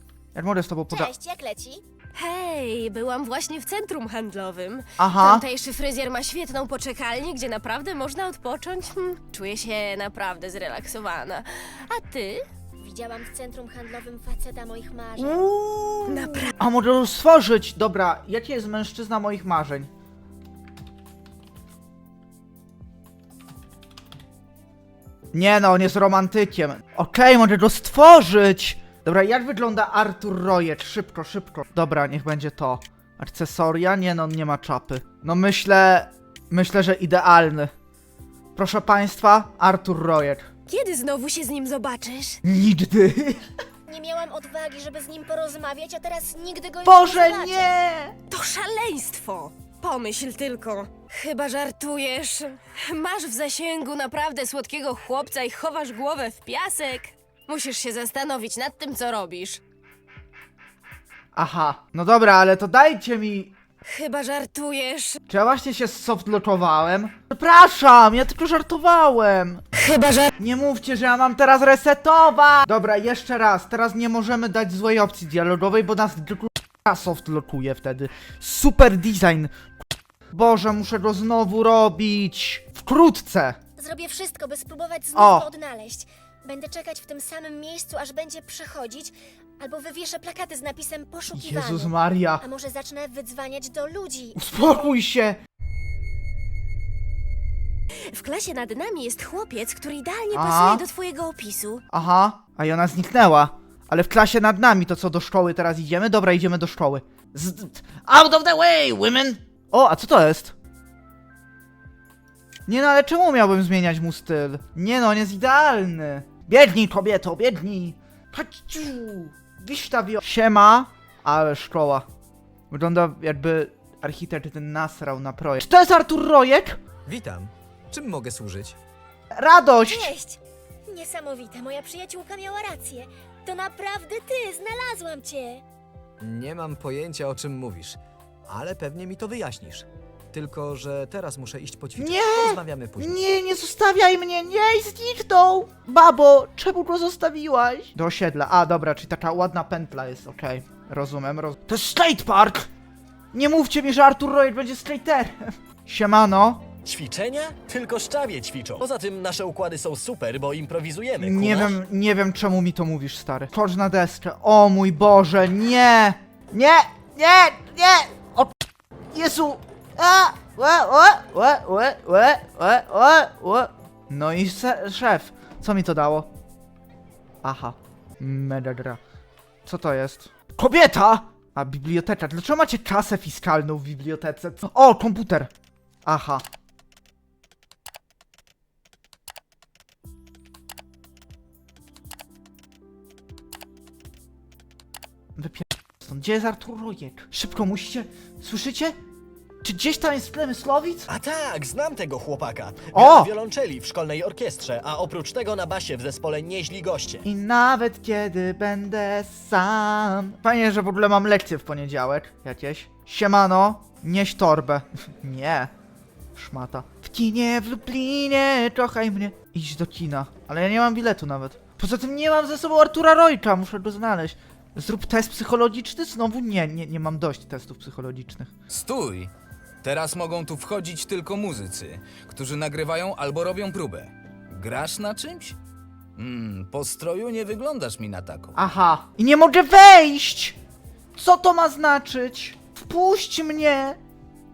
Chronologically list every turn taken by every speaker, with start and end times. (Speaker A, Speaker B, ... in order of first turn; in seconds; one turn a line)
Speaker A: 0.3-1.1
Speaker B: 0.9-1.8
Speaker C: 2.2-12.4
Speaker A: 5.0-5.5
Speaker B: 12.8-15.4
Speaker A: 15.2-19.9
Speaker C: 16.1-16.5
Speaker A: 25.3-37.7
Speaker A: 38.6-40.5
Speaker C: 40.7-42.4
Speaker A: 42.4-43.5
Speaker B: 43.9-47.7
Speaker A: 46.8-48.2
Speaker C: 48.3-59.6
Speaker A: 61.4-63.5
Speaker C: 63.9-65.2
Speaker A: 65.3-69.7
Speaker C: 69.8-70.3
Speaker A: 70.4-79.5
Speaker A: 80.3-83.6
Speaker B: 83.8-94.4
Speaker A: 85.1-85.5
Speaker A: 91.3-92.5
Speaker A: 94.3-95.4
Speaker C: 98.1-101.8
Speaker A: 100.3-100.8
Speaker A: 101.9-110.6
Speaker A: 112.7-122.1
Speaker A: 122.7-126.8
Speaker D: 127.1-128.8
Speaker A: 129.3-130.1
Speaker B: 129.8-135.6
Speaker D: 136.2-143.2
Speaker A: 142.0-152.7
Speaker A: 153.3-156.7
Speaker E: 156.8-161.8
Speaker A: 161.2-168.6
Speaker A: 169.1-176.3
Speaker A: 177.4-179.0
Speaker A: 179.7-185.5
Speaker A: 186.1-186.4
Speaker A: 195.4-199.0
Speaker A: 199.6-201.1
Speaker E: 201.1-207.2
Speaker A: 202.9-203.3
Speaker A: 207.2-215.7
Speaker A: 216.3-228.5
Speaker F: 228.7-229.3
Speaker F: 229.8-235.6
Speaker F: 236.2-238.5
Speaker A: 238.6-240.6
Speaker A: 241.2-244.0